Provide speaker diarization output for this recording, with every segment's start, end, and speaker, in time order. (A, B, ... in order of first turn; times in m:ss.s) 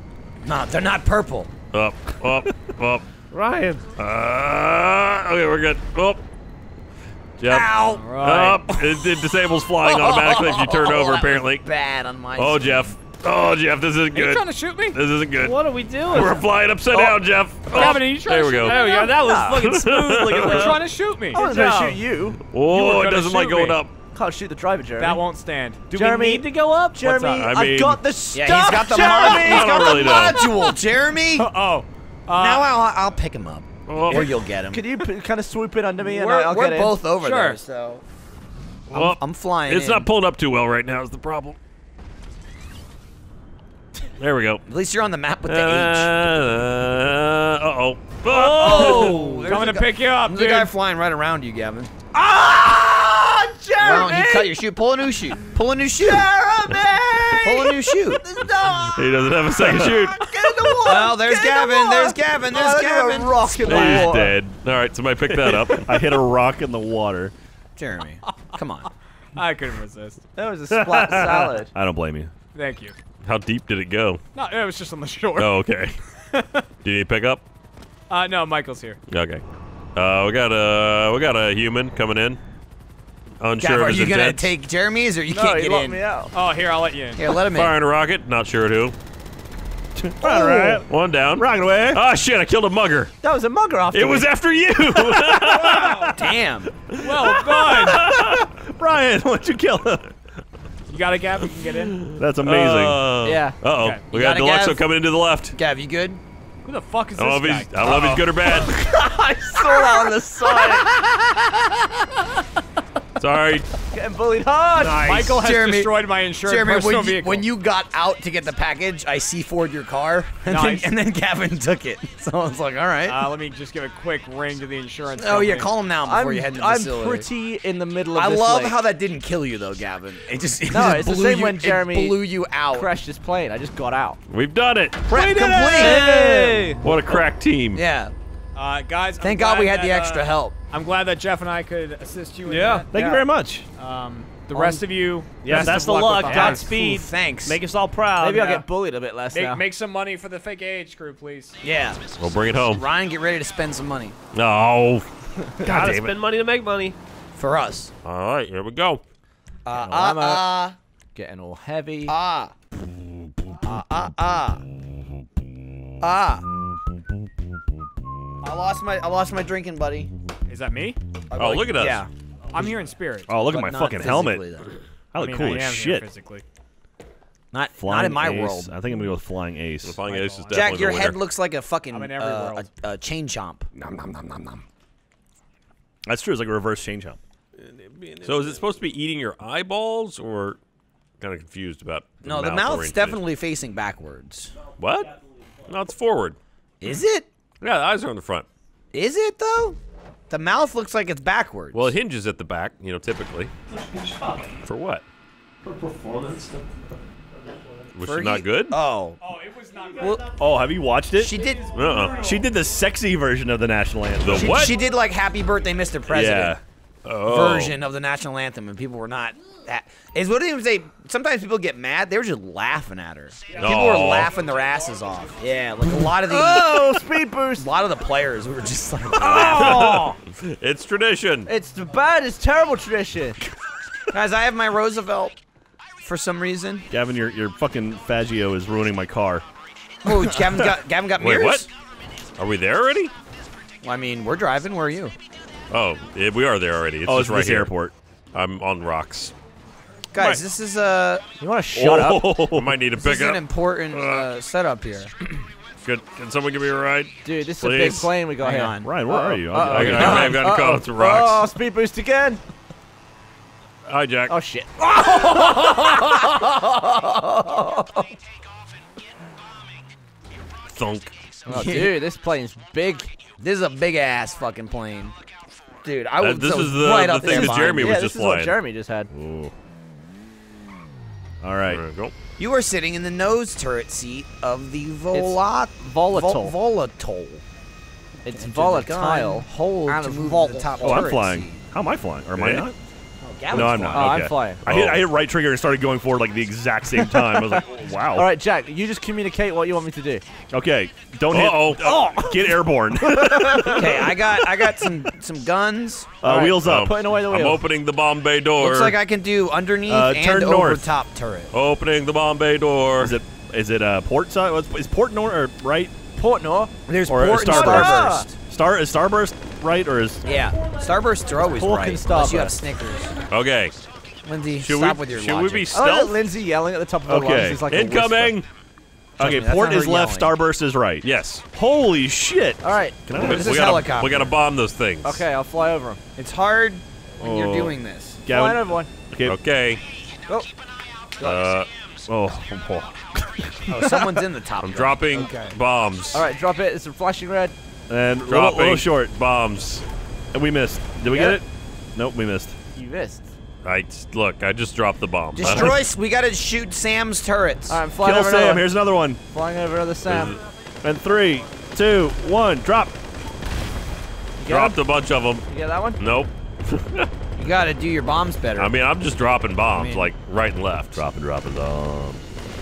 0:00.4-0:01.5 A
0:01.7-0:03.0 B
0:03.3-0:03.8 C
0:04.0-0:06.2 B
0:07.4-0:11.6 B
0:07.4-0:12.9 A
0:07.9-0:08.6 D
0:12.4-0:20.8 B
0:14.1-0:15.0 D
0:15.4-0:16.4 C
0:17.7-0:19.3 D
0:18.6-0:22.0 C
0:20.4-0:21.8 D
0:21.3-0:22.4 E
0:22.5-0:23.9 B
0:22.7-0:23.7 D
0:24.1-0:25.2 E
0:25.0-0:25.8 D
0:25.9-0:27.6 C
0:25.9-0:30.2 E
0:27.3-0:28.0 B
0:28.3-0:31.5 A
0:28.9-0:30.5 B
0:31.4-0:32.7 D
0:32.3-0:34.8 A
0:33.9-0:34.4 B
0:34.1-0:37.0 E
0:36.0-0:38.0 A
0:37.2-0:37.6 D
0:38.9-0:41.6 B
0:38.9-0:40.1 A
0:44.2-0:44.6 B
0:44.7-0:46.1 A
0:45.5-0:49.2 B
0:48.3-0:50.7 D
0:48.3-0:51.9 A
0:52.1-0:54.5 E
0:53.8-0:56.3 A
0:56.0-1:04.4 E
0:57.4-0:58.2 A
0:58.9-1:00.2 B
1:00.8-1:04.0 A
1:03.6-1:06.0 B
1:05.3-1:07.3 F
1:07.8-1:08.9 A
1:09.4-1:10.2 D
1:10.4-1:11.7 E
1:10.7-1:12.3 F
1:12.5-1:13.0 D
1:13.2-1:14.2 B
1:14.4-1:15.6 D
1:15.4-1:16.0 B
1:16.2-1:16.6 D
1:16.8-1:17.4 B
1:18.1-1:19.0 D
1:19.1-1:19.4 B
1:19.9-1:22.4 B
1:23.4-1:24.5 B
1:23.6-1:26.0 A
1:25.3-1:26.3 E
1:26.3-1:27.2 D
1:27.1-1:27.8 A
1:27.4-1:28.9 B
1:30.0-1:30.8 F
1:30.2-1:30.8 E
1:30.9-1:33.1 B
1:31.4-1:32.0 F
1:33.2-1:34.3 E
1:33.9-1:36.1 B
1:35.5-1:36.1 F
1:35.7-1:36.2 D
1:36.2-1:36.8 A
1:37.0-1:38.1 D
1:37.2-1:40.1 F
1:38.0-1:38.4 B
1:40.9-1:42.1 D
1:41.4-1:45.6 B
1:42.2-1:43.0 F
1:43.2-1:43.6 E
1:43.8-1:44.0 D
1:44.1-1:44.8 A
1:45.5-1:46.2 A
1:46.6-1:48.2 D
1:47.2-1:48.7 B
1:48.6-1:50.9 E
1:53.2-1:53.7 B
1:53.9-1:55.1 E
1:54.8-1:55.4 C
1:54.9-1:57.5 D
1:55.3-2:03.3 A
2:00.4-2:00.9 D
2:03.0-2:05.7 D
2:05.2-2:07.3 A
2:06.0-2:08.8 E
2:08.1-2:12.9 A
2:10.7-2:14.2 E
2:14.3-2:15.0 B
2:15.1-2:16.6 A
2:15.1-2:16.6 F
2:15.4-2:16.8 C
2:16.8-2:17.8 B
2:17.7-2:18.1 A
2:18.6-2:26.7 D
2:19.2-2:20.5 A
2:22.4-2:23.0 C
2:22.9-2:23.6 F
2:24.5-2:24.8 A
2:25.4-2:28.6 C
2:25.5-2:26.6 F
2:26.3-2:27.6 A
2:28.2-2:29.6 E
2:29.3-2:31.6 D
2:31.6-2:32.0 A
2:32.2-2:32.8 B
2:32.7-2:34.2 A
2:34.3-2:35.1 B
2:35.6-2:36.2 B
2:35.6-2:37.0 C
2:37.4-2:37.9 A
2:38.0-2:39.0 B
2:39.6-2:40.8 A
2:39.7-2:40.6 E
2:41.1-2:42.2 E
2:42.1-2:42.5 A
2:43.6-2:44.6 A
2:46.0-2:46.4 A
2:48.4-2:50.1 A
2:50.5-2:51.0 D
2:51.3-2:52.1 A
2:51.3-2:52.1 B
2:52.5-2:53.4 D
2:53.3-2:54.5 F
2:53.4-2:54.8 A
2:55.1-2:56.1 F
2:55.1-2:56.4 D
2:57.5-2:58.8 A
2:57.8-3:00.0 F
2:59.8-3:01.2 B
3:00.0-3:00.7 D
3:00.5-3:03.7 A
3:01.9-3:02.7 D
3:03.8-3:04.6 F
3:06.0-3:07.2 F
3:08.2-3:10.6 B
3:11.2-3:13.2 B
3:12.2-3:14.5 A
3:14.8-3:15.1 B
3:15.6-3:16.4 B
3:16.8-3:17.3 A
3:17.6-3:18.5 B
3:18.9-3:19.8 A
3:20.3-3:21.9 A
3:21.7-3:23.5 B
3:23.8-3:24.5 F
3:24.6-3:25.0 B
3:25.6-3:26.8 C
3:27.9-3:28.8 B
3:28.0-3:29.3 A
3:29.2-3:30.3 D
3:30.0-3:30.3 A
3:30.4-3:31.4 F
3:31.2-3:31.8 A
3:31.7-3:32.2 B
3:31.9-3:32.2 C
3:32.1-3:34.6 F
3:34.2-3:34.8 B
3:34.4-3:36.6 A
3:36.1-3:36.6 F
3:37.0-3:37.8 B
3:37.3-3:50.2 A
3:43.6-3:44.3 B
3:45.9-3:47.7 E
3:49.2-3:50.0 E
3:49.2-3:51.5 B
3:51.5-3:53.4 E
3:54.1-3:55.4 A
3:56.0-3:56.9 A
3:56.9-3:59.4 F
4:00.0-4:01.7 A
4:01.2-4:01.6 B
4:02.4-4:03.1 B
4:03.8-4:05.1 A
4:05.7-4:07.7 B
4:07.0-4:07.9 F
4:08.3-4:09.3 B
4:10.1-4:11.2 A
4:11.4-4:12.4 E
4:11.7-4:12.8 F
4:12.4-4:14.3 B
4:13.0-4:15.1 A
4:15.8-4:17.1 B
4:17.2-4:22.4 E
4:17.6-4:18.1 F
4:17.6-4:18.9 A
4:18.8-4:20.6 F
4:19.7-4:21.5 B
4:19.9-4:20.4 A
4:23.9-4:24.4 B
4:24.3-4:24.7 E
4:24.8-4:28.1 A
4:30.7-4:31.2 B
4:31.5-4:32.0 A
4:31.5-4:33.1 E
4:33.4-4:35.1 A
4:35.8-4:38.0 A
4:36.2-4:38.5 B
4:37.2-4:39.1 E
4:39.2-4:39.5 B
4:39.2-4:39.5 F
4:41.4-4:41.8 F
4:41.7-4:42.1 B
4:42.4-4:47.4 A
4:45.1-4:46.5 E
4:48.2-4:51.1 E
4:48.3-4:51.6 A
4:50.8-4:52.8 F
4:52.4-4:52.7 B
4:53.2-4:54.2 A
4:53.5-4:58.3 F
4:53.5-4:55.1 B
4:53.9-4:54.6 E
4:58.1-5:00.2 E
5:00.5-5:04.8 F
5:01.3-5:01.9 B
5:01.8-5:03.8 E
5:03.7-5:06.1 A
5:06.2-5:06.9 F
5:06.2-5:07.6 E
5:06.6-5:09.0 B
5:08.6-5:11.5 A
5:09.9-5:10.9 F
5:11.5-5:13.2 B
5:13.0-5:15.9 F
5:16.2-5:16.7 E
5:16.9-5:18.4 A
5:17.0-5:20.2 F
5:17.3-5:18.3 E
5:20.2-5:23.2 A
5:21.4-5:22.6 E
5:23.3-5:23.8 B
5:24.2-5:25.9 A
5:24.6-5:26.1 B
5:25.7-5:28.4 E
5:27.1-5:27.7 F
5:27.7-5:28.5 B
5:29.2-5:30.3 A
5:29.2-5:33.7 F
5:31.0-5:31.4 B
5:32.6-5:33.0 E
5:33.1-5:34.3 A
5:33.1-5:35.2 B
5:35.0-5:36.0 E
5:36.2-5:38.2 A
5:37.2-5:37.7 F
5:38.2-5:39.4 F
5:38.3-5:38.9 E
5:39.2-5:39.8 B
5:41.2-5:41.5 A
5:41.2-5:41.7 B
5:42.1-5:44.0 F
5:43.7-5:45.6 A
5:44.6-5:46.2 B
5:46.1-5:47.5 E
5:47.9-5:49.1 F
5:48.3-5:49.8 B
5:50.3-5:52.6 F
5:51.0-5:51.4 E
5:52.7-5:53.2 E
5:53.6-5:55.8 B
5:55.4-5:57.8 A
5:57.7-5:58.8 E
5:58.0-5:59.2 F
5:59.3-6:00.4 E
6:00.1-6:00.4 B
6:00.8-6:02.9 F
6:04.4-6:04.8 E
6:04.4-6:05.4 B
6:05.5-6:06.0 E
6:06.0-6:07.1 B
6:07.4-6:08.8 A
6:08.6-6:11.0 B
6:09.7-6:10.1 A
6:10.9-6:12.2 F